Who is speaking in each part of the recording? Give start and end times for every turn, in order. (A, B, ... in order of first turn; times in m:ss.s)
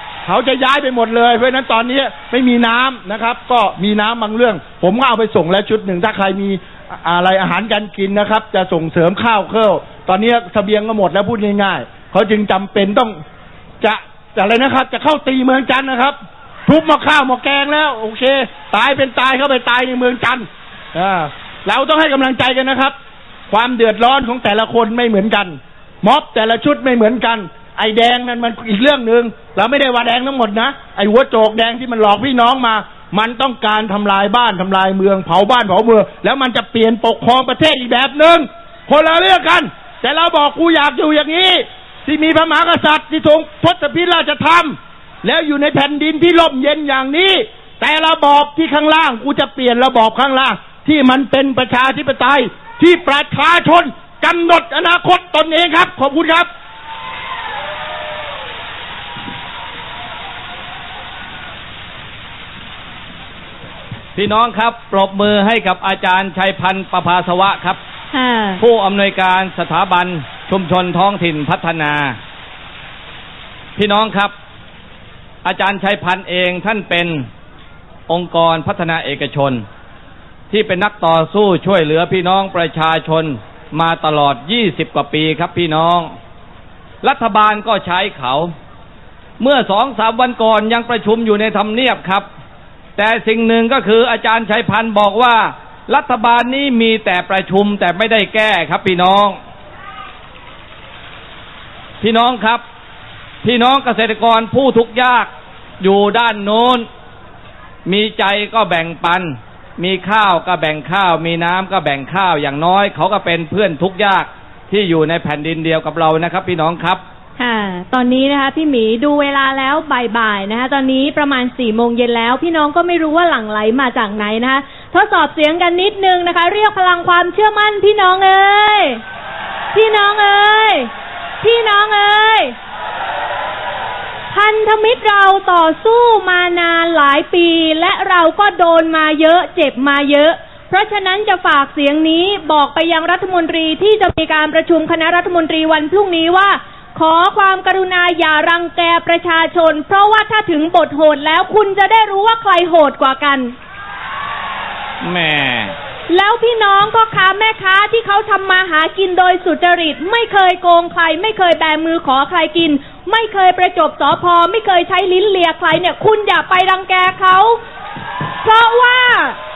0:00.2-0:13.2 A
0:13.8-0:22.9 A
0:23.5-0:56.5 A
1:04.2-1:07.8 B
1:08.1-1:08.6 C
1:08.6-1:12.2 B
1:13.8-1:14.3 B
1:15.4-1:17.3 B
1:18.1-1:19.6 B
1:20.5-1:26.1 B
1:27.0-1:28.5 B
1:29.4-1:32.2 B
1:33.0-1:39.4 B
1:42.0-1:42.6 B
1:43.4-1:45.3 B
1:45.8-1:46.9 B
1:47.8-1:57.0 B
1:57.4-2:09.0 C
2:09.7-2:10.9 C
2:11.4-2:12.5 C
2:14.3-2:33.5 C
2:35.0-2:35.8 B
2:36.1-2:47.6 C
2:48.4-2:49.4 C